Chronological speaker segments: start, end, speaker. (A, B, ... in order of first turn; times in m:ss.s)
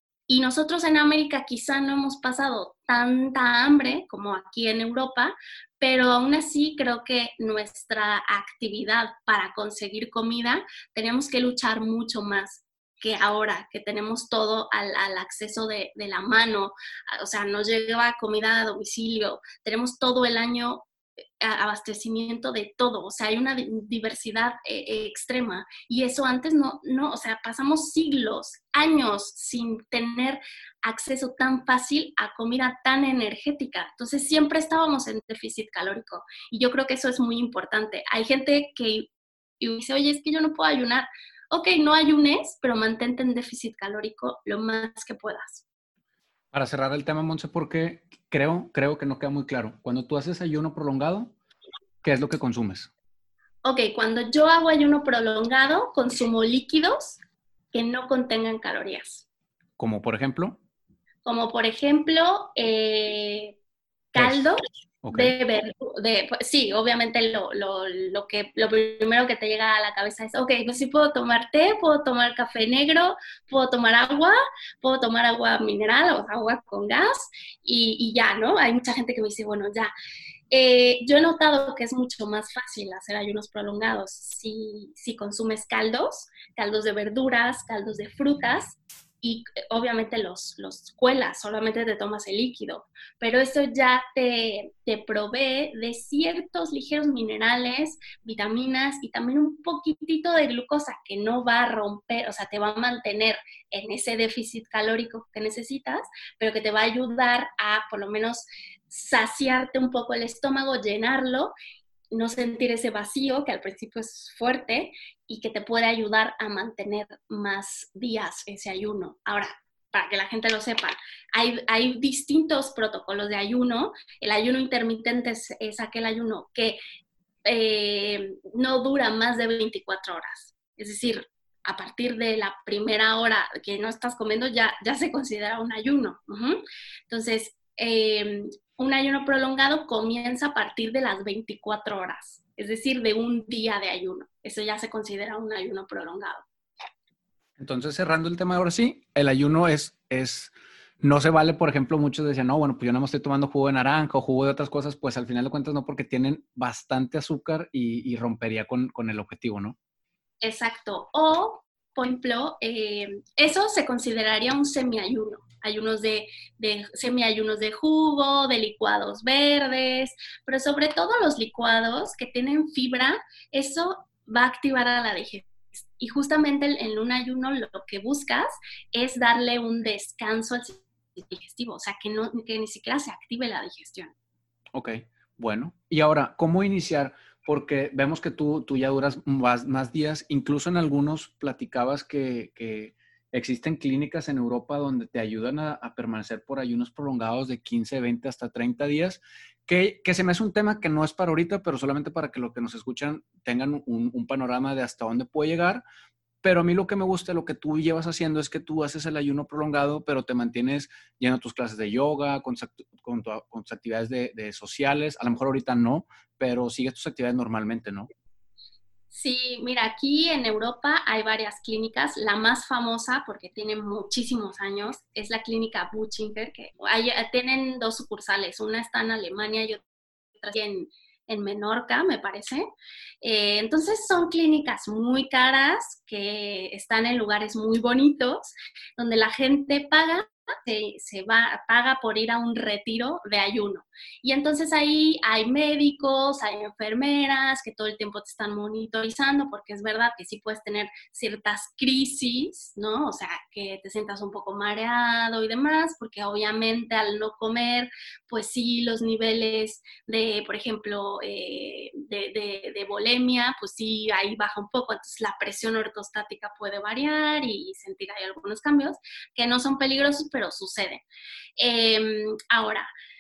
0:00.3-0:20.9 A
0:21.4-0:45.6 A
0:46.5-0:51.4 B
0:52.0-0:52.9 B
0:53.6-0:57.2 A
0:57.7-0:59.3 A
0:59.8-1:00.6 B
1:01.2-1:03.6 A
1:04.1-1:19.9 A
1:04.2-1:04.5 B
1:05.0-1:05.4 B
1:20.5-1:51.5 A
1:52.1-2:06.8 A
2:07.4-2:26.4 A
2:27.6-2:39.8 B
2:40.4-3:04.1 A
3:04.7-3:25.8 B
3:26.4-3:38.1 B
3:39.1-3:49.8 A
3:50.4-3:52.7 A
3:53.2-4:31.0 A
4:31.6-4:32.9 A